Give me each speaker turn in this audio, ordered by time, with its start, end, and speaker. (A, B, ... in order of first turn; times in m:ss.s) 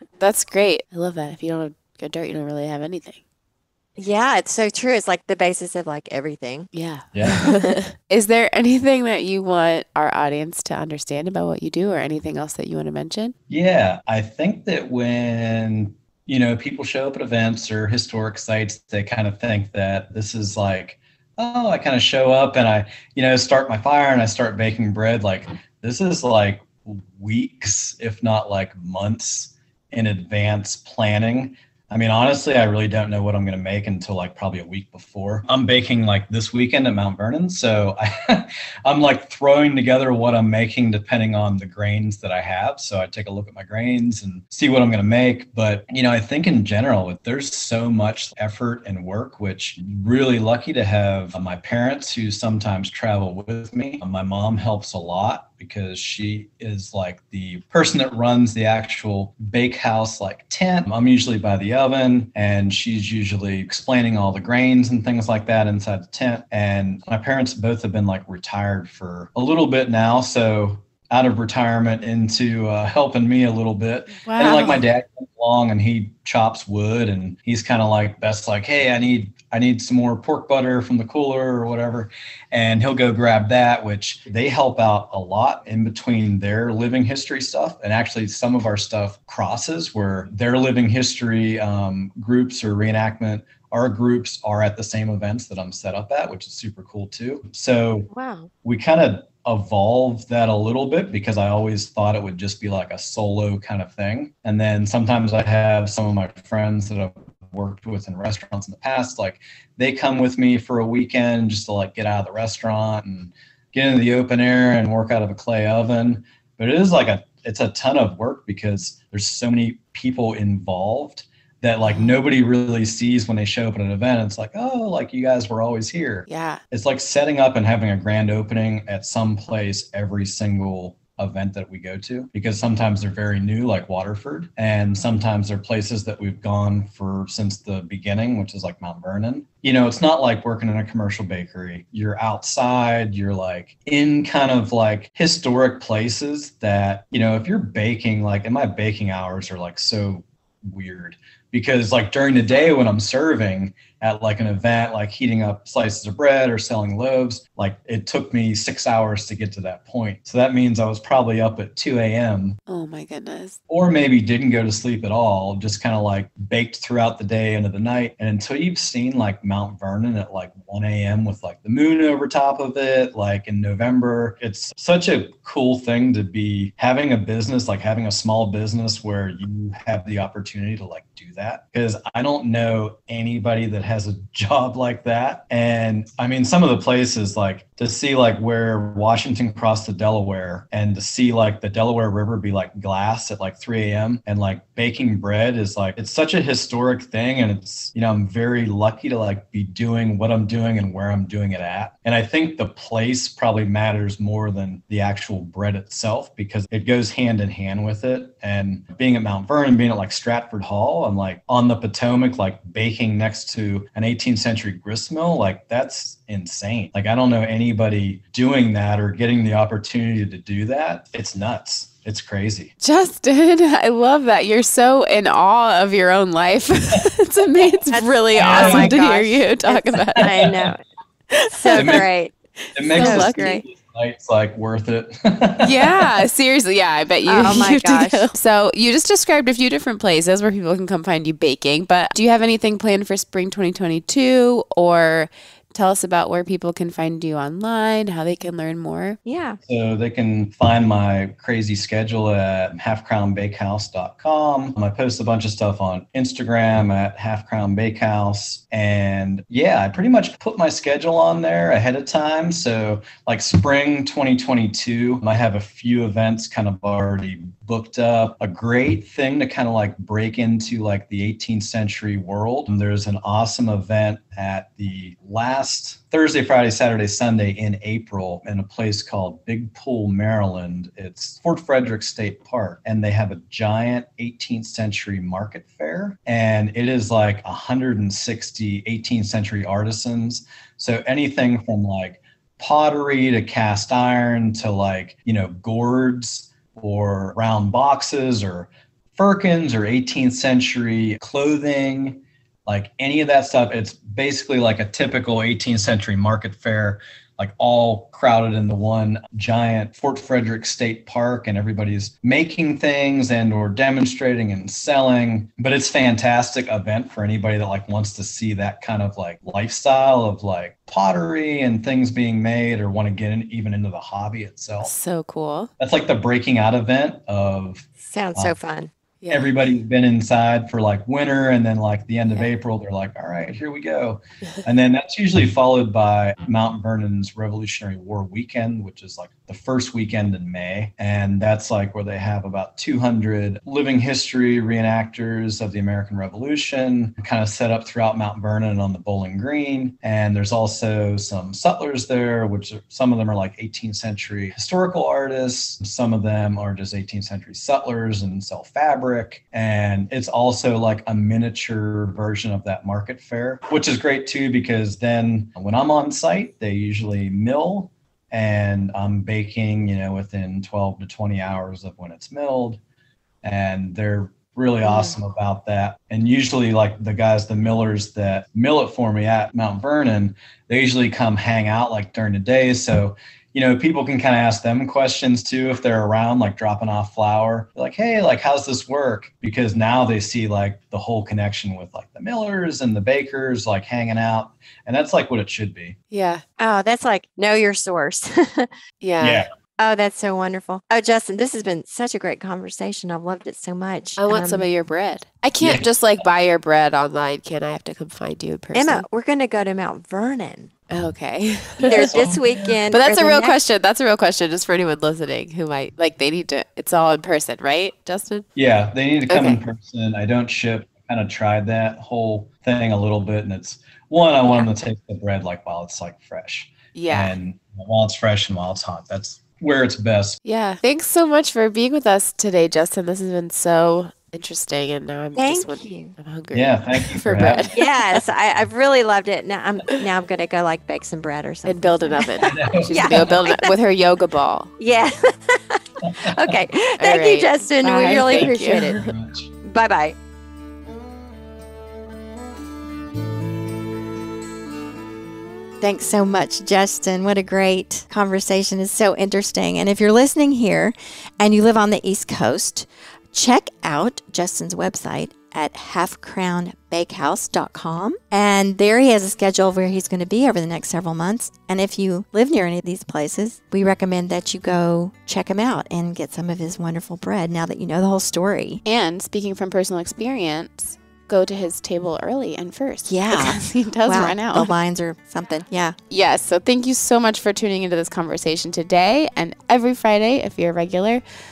0:00.2-0:03.2 A
0:04.0-0:06.7 B
0:06.7-0:13.4 A
0:07.1-0:07.4 C
0:07.5-0:07.7 B
0:13.5-1:38.1 C
1:14.2-1:14.8 A
1:38.1-1:38.5 B
1:38.6-2:42.6 C
2:06.3-2:06.6 A
2:42.7-2:43.6 A
2:43.7-3:42.7 C
3:42.8-3:50.3 A
3:47.9-3:50.8 B
3:48.4-3:49.0 C
3:50.2-3:50.7 C
3:51.3-3:52.0 A
3:51.5-3:52.4 B
3:51.7-3:52.0 C
3:52.8-3:56.1 C
3:52.8-3:53.5 A
3:52.9-3:53.6 B
3:55.6-4:09.2 A
3:57.3-3:58.3 B
4:09.2-4:09.6 B
4:09.6-5:24.9 C
5:24.8-5:25.7 A
5:25.8-5:28.6 C
5:28.0-5:28.9 B
5:29.2-5:29.5 A
5:29.3-6:12.8 C
6:13.4-6:36.0 C
6:36.1-6:36.4 A
6:36.6-6:38.7 B
6:39.0-6:39.4 A
6:39.2-6:39.5 C
6:39.8-6:44.7 B
6:44.2-6:49.1 A
6:48.7-6:50.7 B
6:50.9-6:52.3 A
6:51.8-6:52.8 C
6:51.9-6:53.6 B
6:52.9-6:58.5 A
6:58.6-7:10.4 C
6:59.3-6:59.6 A
7:07.0-7:07.3 A
7:10.4-7:17.9 A
7:15.4-7:16.1 B
7:16.5-7:17.7 C
7:17.7-7:23.7 B
7:21.7-7:24.7 A
7:22.4-7:23.4 C
7:24.8-7:29.1 B
7:26.0-7:26.3 C
7:27.0-7:29.1 A
7:28.1-7:29.5 C
7:29.6-7:30.2 B
7:35.8-7:58.8 B
7:58.8-8:04.7 A
8:03.1-8:06.0 B
8:06.1-8:11.2 A